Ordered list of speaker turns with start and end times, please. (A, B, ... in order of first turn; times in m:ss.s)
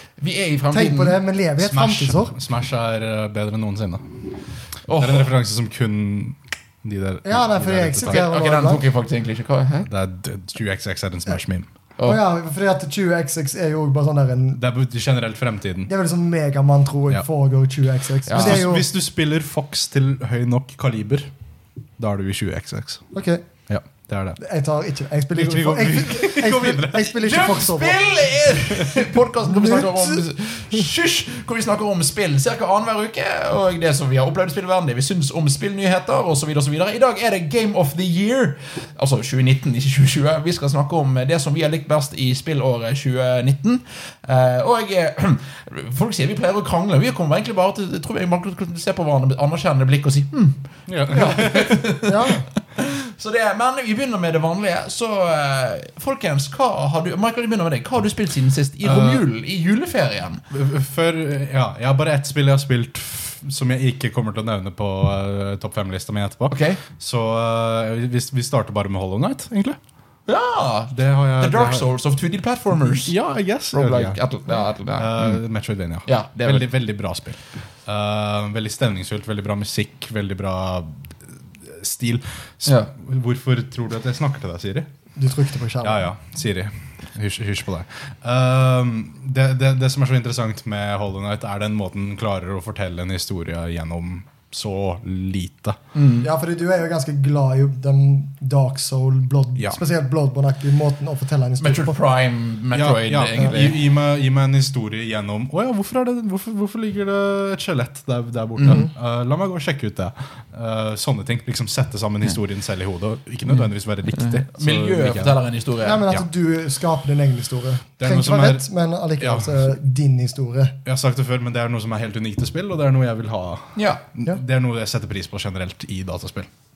0:00.2-0:01.2 A
0:00.7-0:02.3 B
0:01.6-0:04.2 C
0:04.9-0:05.3 A
0:05.0-0:08.2 C
0:07.2-0:08.8 B
0:08.0-0:09.9 A
0:09.9-0:11.6 C
0:12.0-0:14.6 B
0:14.6-0:15.9 C
0:15.9-0:18.9 B
0:18.2-0:18.6 A
0:18.3-0:21.3 C
0:22.0-0:23.0 C
0:23.1-0:23.4 B
0:23.7-0:24.4 C
0:24.4-0:28.0 B
0:25.3-0:27.5 C
0:27.2-1:00.4 A
0:29.4-0:30.2 B
0:50.9-0:51.8 C
0:51.9-0:52.5 B
0:58.8-0:59.2 C
1:00.5-1:09.8 C
1:06.5-1:06.8 A
1:10.3-1:13.2 A
1:10.9-1:11.8 C
1:12.9-1:14.2 C
1:13.7-1:15.4 A
1:15.0-1:21.1 C
1:16.0-1:16.7 A
1:21.6-1:24.9 C
1:25.2-1:26.0 B
1:25.8-1:35.8 C
1:35.9-1:36.3 A
1:36.2-1:42.0 B
1:41.6-1:43.8 A
1:42.7-1:55.4 C
1:48.6-1:48.9 A
1:53.5-1:56.0 A
1:55.8-2:00.8 B
1:58.0-1:58.6 C
1:59.2-1:59.6 C
2:00.8-2:06.5 C
2:03.8-2:04.0 A